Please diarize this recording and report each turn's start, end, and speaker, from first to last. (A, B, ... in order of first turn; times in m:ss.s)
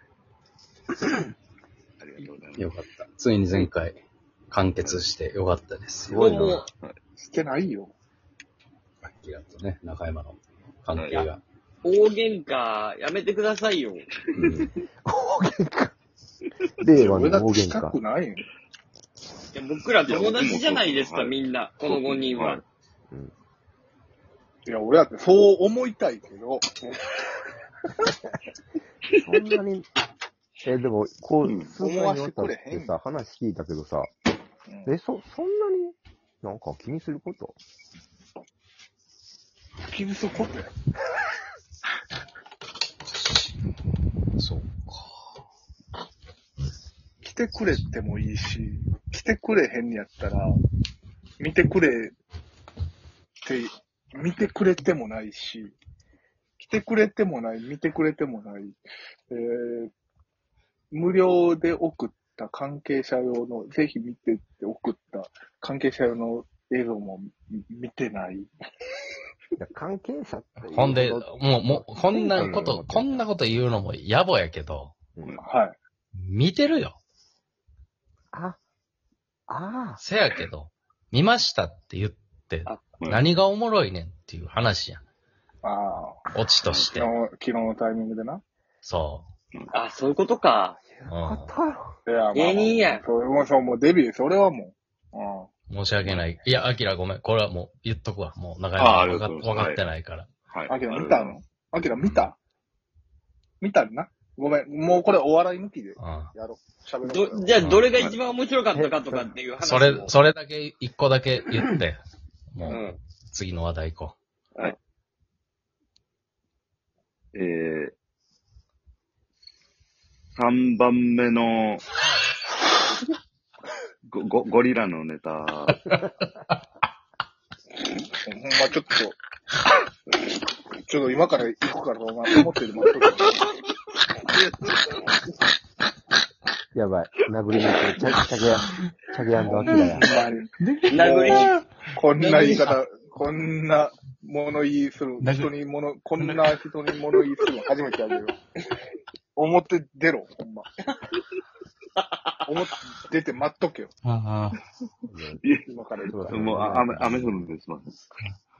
0:02.0-0:02.7 A
0:02.6-0:04.0 B
0:04.5-0:06.2 B
0:04.8-0:05.0 A
0:06.1-0:06.6 C
0:06.1-0:06.7 D
0:06.7-0:07.0 A
0:07.2-0:07.9 E
0:09.0-0:11.4 B
0:10.9-0:11.2 A
0:11.8-0:14.1 D
0:14.3-0:14.6 A
0:14.3-0:16.0 C
0:16.8-0:18.0 C
0:17.0-0:18.4 E
0:19.5-0:22.6 D
0:20.0-0:22.6 A
0:24.7-0:27.2 E
0:29.2-0:29.9 C
0:30.6-0:34.1 C
0:31.4-0:31.8 A
0:31.8-0:32.9 E
0:34.8-0:37.6 C
0:39.8-0:40.7 E
0:44.4-0:45.1 B
0:47.2-0:50.6 E
0:51.4-0:52.1 E
0:53.4-0:55.8 E
0:56.6-0:58.8 E
0:59.3-0:59.9 E
1:00.9-1:08.5 E
1:09.6-1:13.3 C
1:10.6-1:15.0 B
1:15.2-1:15.4 A
1:15.4-1:15.8 E
1:16.1-1:17.0 B
1:18.3-1:18.6 C
1:19.5-1:20.0 C
1:20.0-1:25.0 B
1:25.6-1:26.2 E
1:26.3-1:27.1 B
1:26.6-1:27.0 A
1:26.9-1:28.4 E
1:28.8-1:29.3 B
1:29.7-1:30.8 D
1:31.0-1:32.0 C
1:31.1-1:31.5 B
1:32.0-1:35.5 E
1:32.3-1:33.0 D
1:35.7-1:40.3 B
1:38.8-1:39.8 A
1:40.5-1:41.4 A
1:40.7-1:42.4 E
1:42.0-1:42.3 B
1:43.6-1:47.8 E
1:46.0-1:46.3 B
1:47.0-1:50.2 D
1:47.6-1:47.9 B
1:47.9-1:48.2 A
1:48.7-1:49.3 C
1:49.6-1:52.0 B
1:52.5-1:54.2 B
1:52.6-1:53.0 D
1:57.3-1:58.0 A
2:00.3-2:01.8 A
2:04.0-2:05.8 A
2:08.2-2:09.2 E
2:10.9-2:13.4 E
2:14.3-2:14.8 A
2:16.7-2:20.1 C
2:19.4-2:28.4 E
2:19.7-2:20.0 B
2:20.6-2:22.7 B
2:20.9-2:21.5 D
2:22.2-2:22.6 D
2:25.2-2:25.5 B
2:26.2-2:26.5 B
2:29.4-2:30.9 E
2:32.0-2:32.3 D
2:32.4-2:33.9 E
2:34.0-2:34.6 B
2:35.1-2:35.4 C
2:35.4-2:38.0 A
2:35.7-2:36.8 E
2:36.1-2:37.4 C